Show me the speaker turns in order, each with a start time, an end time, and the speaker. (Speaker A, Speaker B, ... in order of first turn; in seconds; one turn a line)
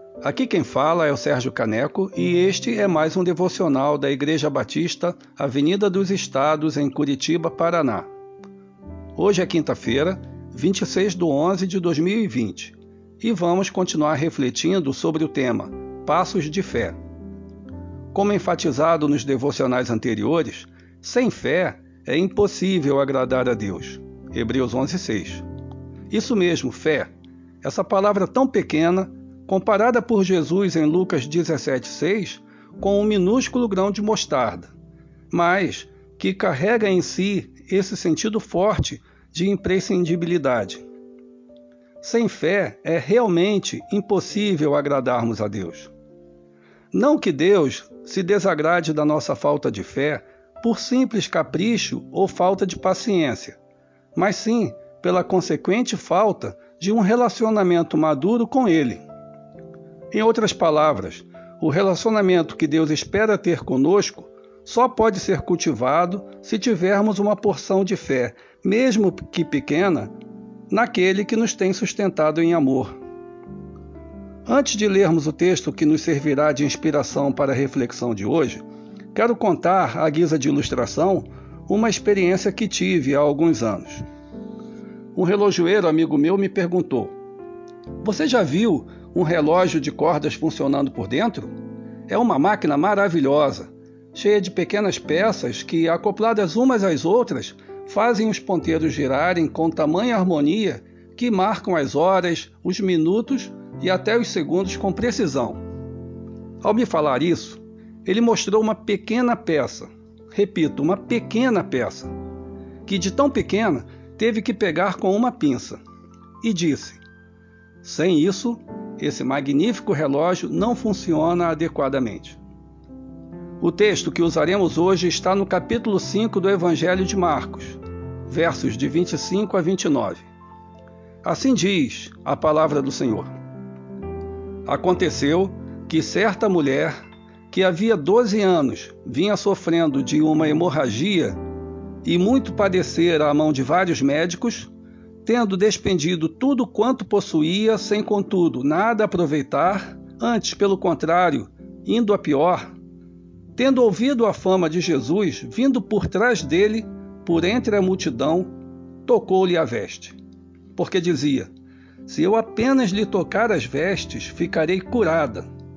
Speaker A: 0.2-8.1
Speaker A: 9.2-17.0
Speaker A: 18.1-25.4
Speaker A: 26.1-27.1
Speaker A: 27.6-34.7
Speaker A: 35.3-40.8
Speaker A: 42.0-45.9
Speaker A: 46.9-53.6
Speaker A: 54.1-59.0
Speaker A: 60.1-70.1
Speaker A: 70.7-72.9
Speaker A: 74.5-78.6
Speaker A: 79.1-84.0
Speaker A: 85.1-87.1
Speaker A: 88.0-91.5
Speaker A: 92.1-105.6
Speaker A: 106.6-112.1
Speaker A: 112.9-115.8
Speaker A: 116.4-117.0
Speaker A: 117.8-122.4
Speaker A: 123.6-130.2
Speaker A: 131.2-133.3
Speaker A: 134.7-136.9
Speaker A: 137.5-141.4
Speaker A: 142.0-144.7
Speaker A: 145.2-152.6
Speaker A: 153.6-158.5
Speaker A: 159.1-160.2
Speaker A: 160.8-161.5
Speaker A: 162.1-165.5